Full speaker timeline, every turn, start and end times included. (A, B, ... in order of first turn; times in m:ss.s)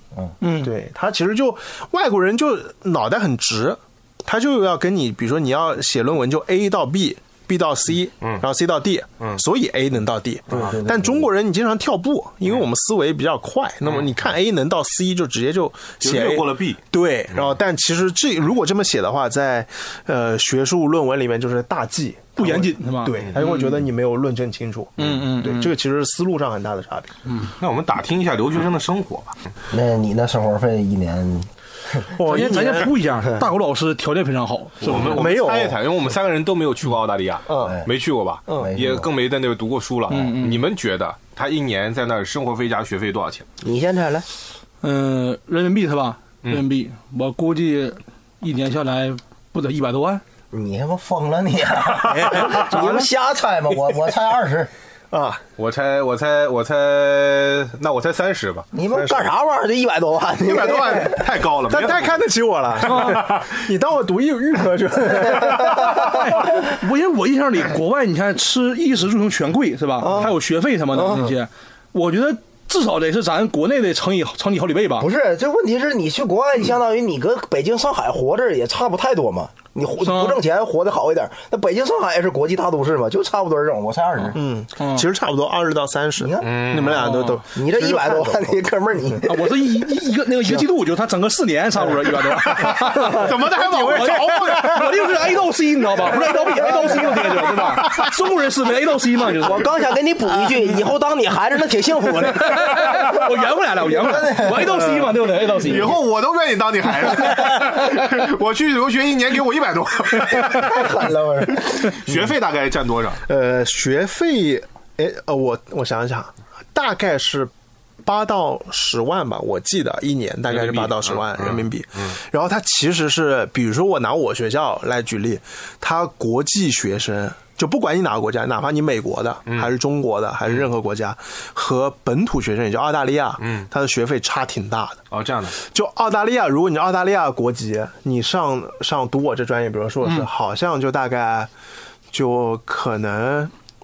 0:00.4-0:00.7 A
0:00.6-0:27.1 B
0:10.5-0:11.3 C
0:16.0-0:16.8 D
0:22.4-0:23.8 A
0:25.0-0:25.7 A
0:27.5-0:29.4 D
0:29.7-0:32.1 C
0:32.1-0:33.4 B
0:32.2-0:35.3 A
0:34.8-0:43.4 D
0:35.0-0:35.8 B
0:37.5-0:37.8 B
0:38.5-0:38.7 B
0:38.6-0:39.1 C
0:40.1-0:40.6 A
0:43.6-0:44.3 C
0:44.8-0:50.2 A
0:50.5-0:54.7 C
0:52.1-0:52.5 D
0:52.4-0:53.0 A
0:55.1-0:55.4 B
0:55.6-0:58.7 D
0:58.7-1:01.3 C
1:00.4-1:02.2 D
1:01.7-1:06.4 B
1:02.8-1:03.6 D
1:02.8-1:03.2 A
1:05.1-1:06.1 C
1:05.8-1:15.1 A
1:10.0-1:10.3 C
1:10.9-1:11.2 C
1:15.0-1:24.4 C
1:20.0-1:20.4 A
1:24.3-1:28.6 B
1:24.8-1:25.1 A
1:26.2-1:26.5 C
1:26.4-1:27.1 D
1:27.0-1:27.4 A
1:27.5-1:29.9 C
1:29.2-1:39.7 A
1:32.7-1:35.4 B
1:33.2-1:34.7 D
1:36.0-1:37.6 C
1:37.4-1:38.0 B
1:39.4-1:43.2 C
1:42.2-1:45.9 A
1:43.8-1:46.0 C
1:45.6-1:50.9 D
1:50.4-1:51.9 C
1:51.5-1:53.2 D
1:53.2-1:57.5 B
1:58.0-2:15.0 B
2:00.5-2:02.1 D
2:13.4-2:13.7 D
2:15.1-2:15.6 D
2:15.6-2:21.5 B
2:22.1-2:23.5 B